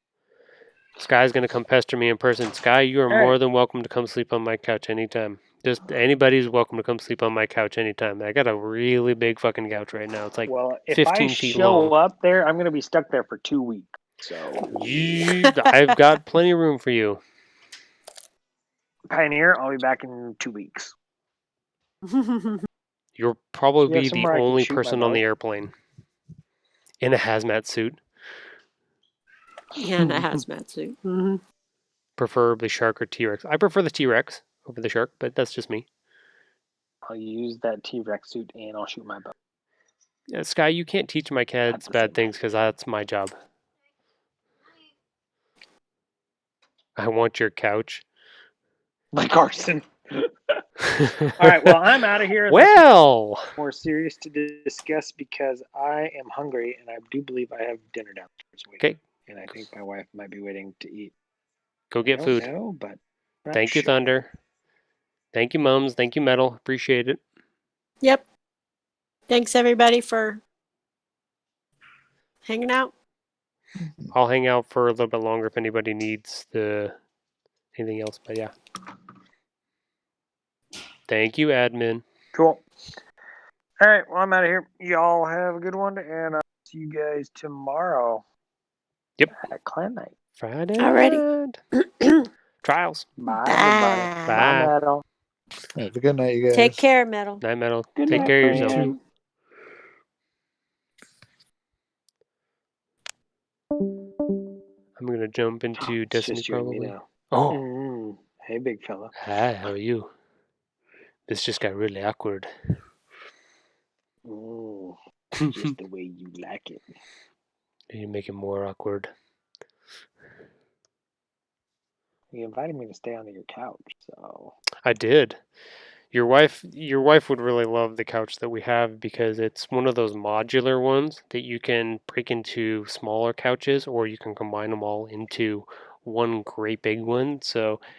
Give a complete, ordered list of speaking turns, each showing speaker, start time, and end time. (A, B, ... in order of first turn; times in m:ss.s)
0:01.0-0:11.9 A
0:03.1-0:03.4 B
0:10.5-0:15.2 B
0:14.7-0:17.2 A
0:19.1-0:20.9 B
0:22.1-0:22.6 C
0:23.2-0:25.7 A
0:23.8-0:25.2 B
0:27.0-0:28.0 A
0:29.7-0:31.4 C
0:30.0-0:30.3 A
0:32.2-0:35.9 A
0:37.1-0:39.3 B
0:40.3-0:43.4 A
0:41.7-0:42.4 B
0:47.0-0:48.0 A
0:49.1-0:50.6 B
0:50.8-0:51.7 A
0:51.4-0:52.8 B
0:52.5-0:53.4 A
0:53.6-1:01.1 B
1:01.9-1:02.5 A
1:02.1-1:03.9 B
1:03.5-1:04.3 A
1:05.3-1:07.2 A
1:09.3-1:10.4 C
1:12.5-1:12.9 C
1:13.8-1:14.1 D
1:14.1-1:17.0 A
1:17.8-1:18.5 A
1:21.1-1:22.0 A
1:22.3-1:22.6 B
1:23.8-1:28.2 B
1:29.4-1:30.1 B
1:30.4-1:31.6 A
1:30.8-1:31.2 C
1:32.6-1:33.1 A
1:33.2-1:35.0 B
1:33.4-1:34.4 C
1:34.2-1:34.7 A
1:35.8-1:36.8 D
1:36.5-1:37.4 C
1:37.4-1:38.9 A
1:38.0-1:39.0 B
1:38.1-1:38.9 D
1:45.0-1:47.6 A
1:45.8-1:49.1 B
1:49.2-1:50.1 A
1:51.3-1:52.5 A
1:54.2-1:56.8 B
1:57.9-1:59.1 A
2:02.3-2:04.6 B
2:04.8-2:05.4 A
2:06.1-2:17.8 A